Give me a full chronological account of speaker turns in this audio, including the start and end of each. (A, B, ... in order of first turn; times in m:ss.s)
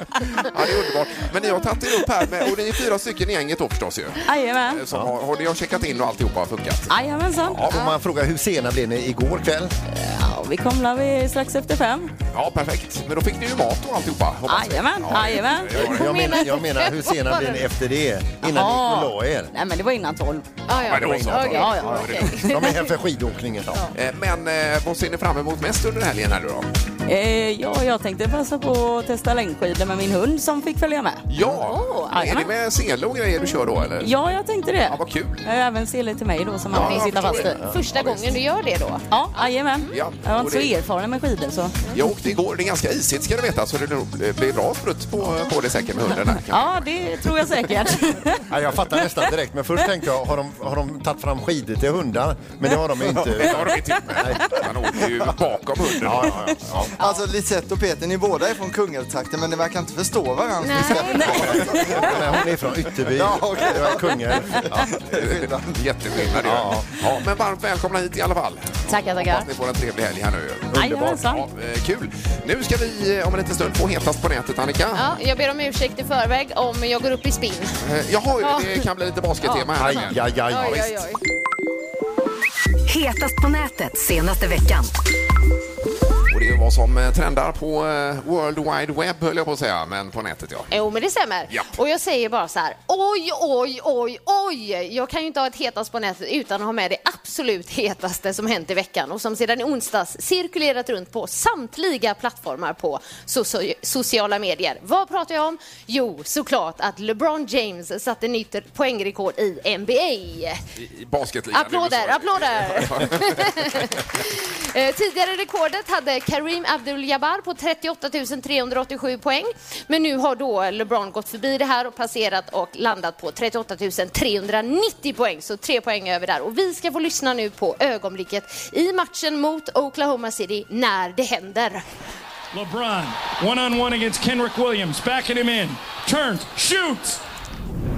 0:00.3-0:07.8 A
0:04.3-0:04.8 B
0:06.9-0:07.6 B
0:07.6-0:09.7 C
0:09.9-0:12.1 B
0:12.3-0:16.4 A
0:14.5-0:15.8 B
0:15.7-0:19.5 C
0:15.8-0:17.6 D
0:18.4-0:22.2 B
0:20.7-0:22.9 D
0:20.8-0:22.4 A
0:22.4-0:23.9 C
0:23.9-0:26.7 A
0:27.1-0:31.2 B
0:31.3-0:34.1 A
0:31.6-0:32.1 D
0:32.1-0:32.5 B
0:34.0-0:37.6 B
0:34.8-0:35.4 A
0:36.7-0:38.4 A
0:36.8-0:39.5 D
0:39.1-0:41.8 B
0:39.9-0:40.7 A
0:41.9-0:46.9 A
0:46.4-0:48.4 B
0:48.5-0:55.3 C
0:53.2-0:56.9 A
0:56.0-0:56.9 C
0:57.0-1:02.1 E
1:00.6-1:01.8 D
1:00.9-1:01.9 B
1:01.3-1:04.9 C
1:03.1-1:06.3 E
1:05.1-1:15.1 A
1:06.4-1:06.9 C
1:08.9-1:09.5 D
1:10.7-1:11.2 C
1:10.7-1:11.5 B
1:15.0-1:17.8 D
1:17.8-1:20.9 A
1:18.4-1:18.8 D
1:19.4-1:21.2 D
1:19.8-1:20.9 C
1:22.9-1:24.9 F
1:26.3-1:30.7 A
1:30.7-1:50.6 D
1:50.8-1:54.0 A
1:51.5-2:11.8 D
2:12.5-2:17.2 G